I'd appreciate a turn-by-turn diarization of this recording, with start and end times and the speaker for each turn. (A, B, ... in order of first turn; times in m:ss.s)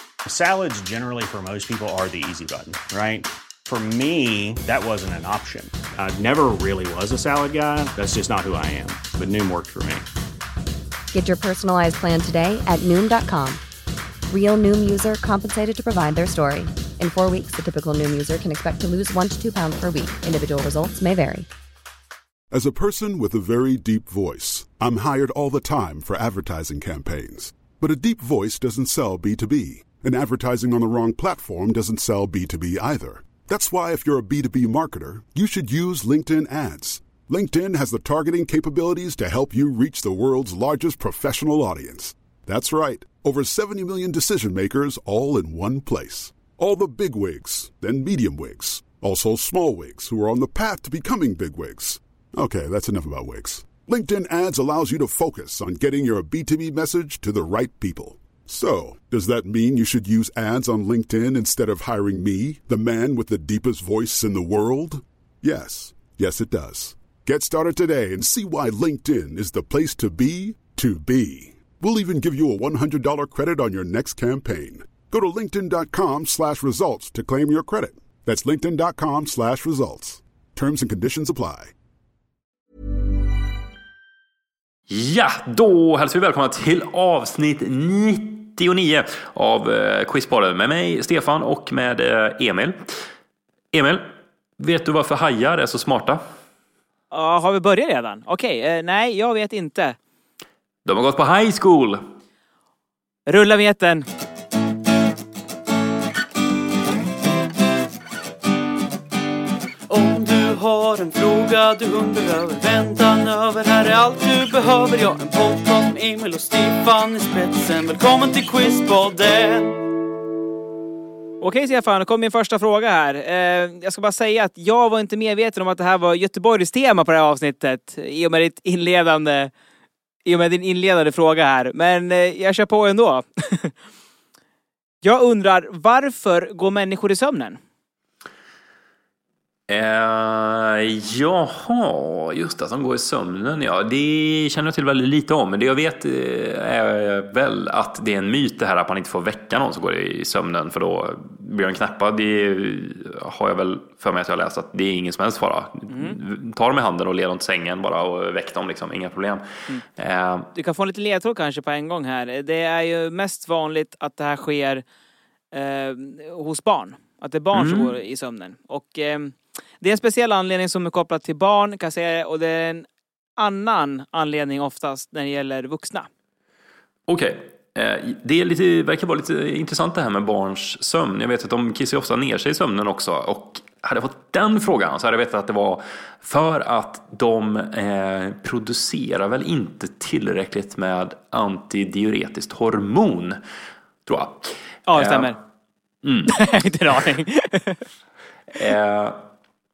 0:00.3-0:10.0 A
0:11.1-0:13.6 B
0:14.3-0:21.5 B
0:22.5-1:21.7 C
1:24.9-1:33.0 D
1:33.7-1:34.0 D
1:34.6-1:36.2 D
1:37.1-1:40.0 E
1:40.9-1:42.0 D
1:43.3-1:44.1 E
1:49.9-1:59.9 F
2:01.4-2:09.5 E
2:10.2-2:13.7 E
2:15.0-2:17.6 E
2:19.7-2:39.4 D
2:35.9-2:36.2 E
2:40.0-2:40.5 D
2:40.5-2:44.8 E
2:45.5-2:52.8 E
2:47.5-2:47.9 D
2:53.4-2:56.1 E
2:57.1-3:13.4 D
3:14.0-3:15.4 D
3:14.9-3:15.4 E
3:16.0-3:16.4 D
3:16.3-3:17.8 E
3:18.5-3:19.2 D